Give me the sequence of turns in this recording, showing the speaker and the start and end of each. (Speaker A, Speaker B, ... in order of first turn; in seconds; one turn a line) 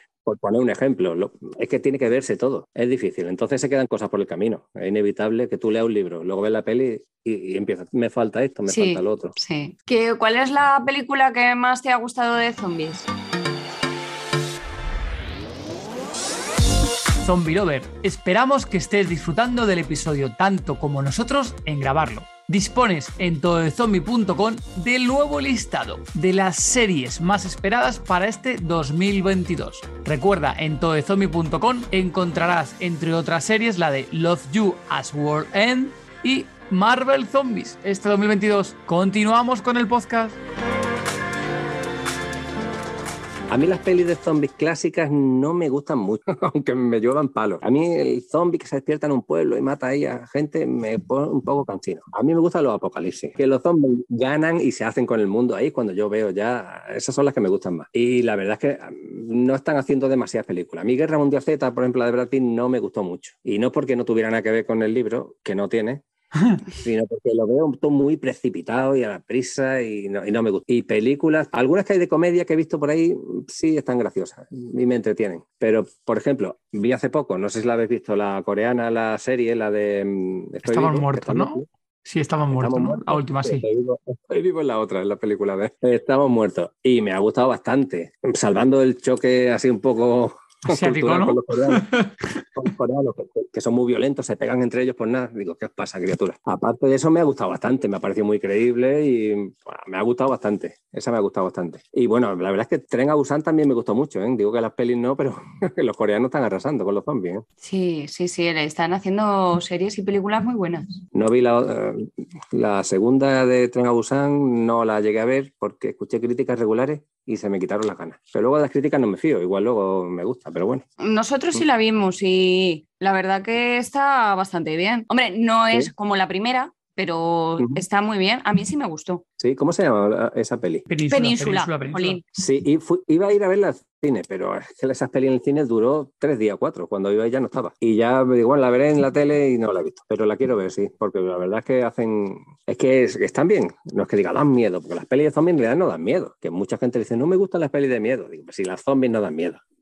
Speaker A: 0.2-9.3
Speaker B: 8.7-13.1
Speaker C: 17.2-40.4
Speaker A: 43.5-66.0
Speaker C: 66.3-66.6
Speaker A: 66.8-81.7
Speaker C: 80.6-83.6
Speaker A: 82.5-91.9
Speaker C: 90.7-92.4
Speaker A: 92.5-107.5
Speaker B: 107.6-110.9
Speaker A: 111.1-120.8
Speaker B: 121.0-129.2
Speaker A: 129.4-130.9
Speaker C: 130.9-132.2
Speaker B: 131.1-132.3
Speaker A: 132.3-149.6